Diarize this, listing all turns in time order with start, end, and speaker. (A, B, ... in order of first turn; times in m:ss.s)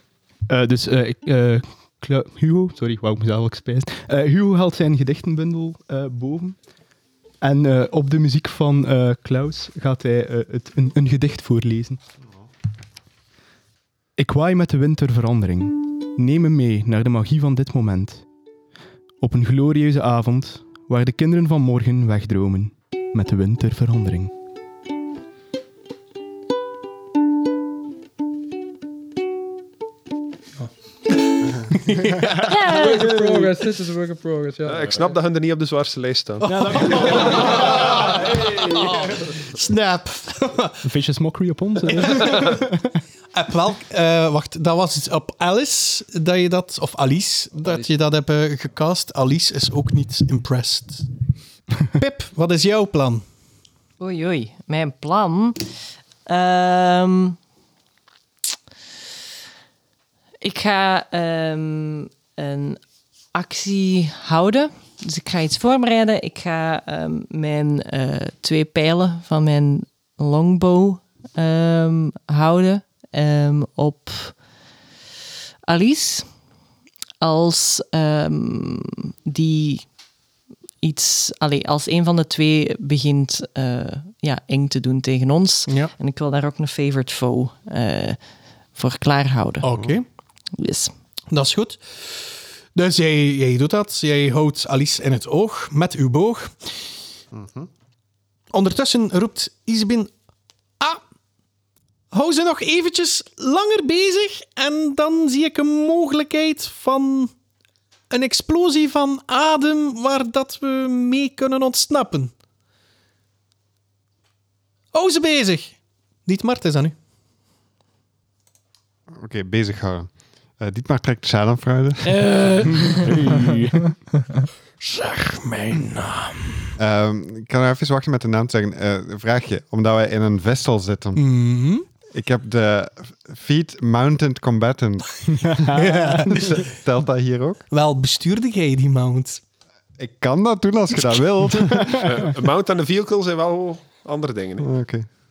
0:00.5-0:06.6 A
0:07.4-0:12.0 A
0:14.2-0:18.2 A
0:19.2-0:24.3 A
0:31.7-0:33.4 B
0:32.4-0:33.2 C
0:32.5-0:35.0 D
0:34.6-0:37.0 E
0:36.4-0:39.0 A
0:36.5-0:40.8 B
0:40.8-0:43.0 A
0:42.0-0:42.6 B
0:43.3-0:51.1 B
0:51.9-0:53.2 B
0:54.0-0:55.7 C
0:56.2-0:57.4 C
1:00.4-1:02.8 C
1:03.3-1:14.4 C
1:15.7-1:16.3 C
1:17.2-1:19.9 C
1:20.8-1:28.2 C
1:28.7-1:29.7 C
1:29.6-1:30.0 B
1:30.5-1:30.9 C
1:31.3-1:36.8 B
1:37.3-1:37.7 F
1:38.5-1:40.1 B
1:42.1-1:47.3 B
1:48.1-1:52.3 B
1:54.9-1:56.9 B
1:59.1-2:02.5 F
2:02.2-2:03.0 C
2:02.7-2:03.9 A
2:04.8-2:06.7 B
2:06.8-2:11.2 F
2:11.2-2:11.8 B
2:12.1-2:17.6 F
2:15.4-2:15.8 A
2:15.7-2:16.7 B
2:17.7-2:19.4 B
2:20.0-2:22.1 F
2:22.0-2:24.7 E
2:24.6-2:25.0 F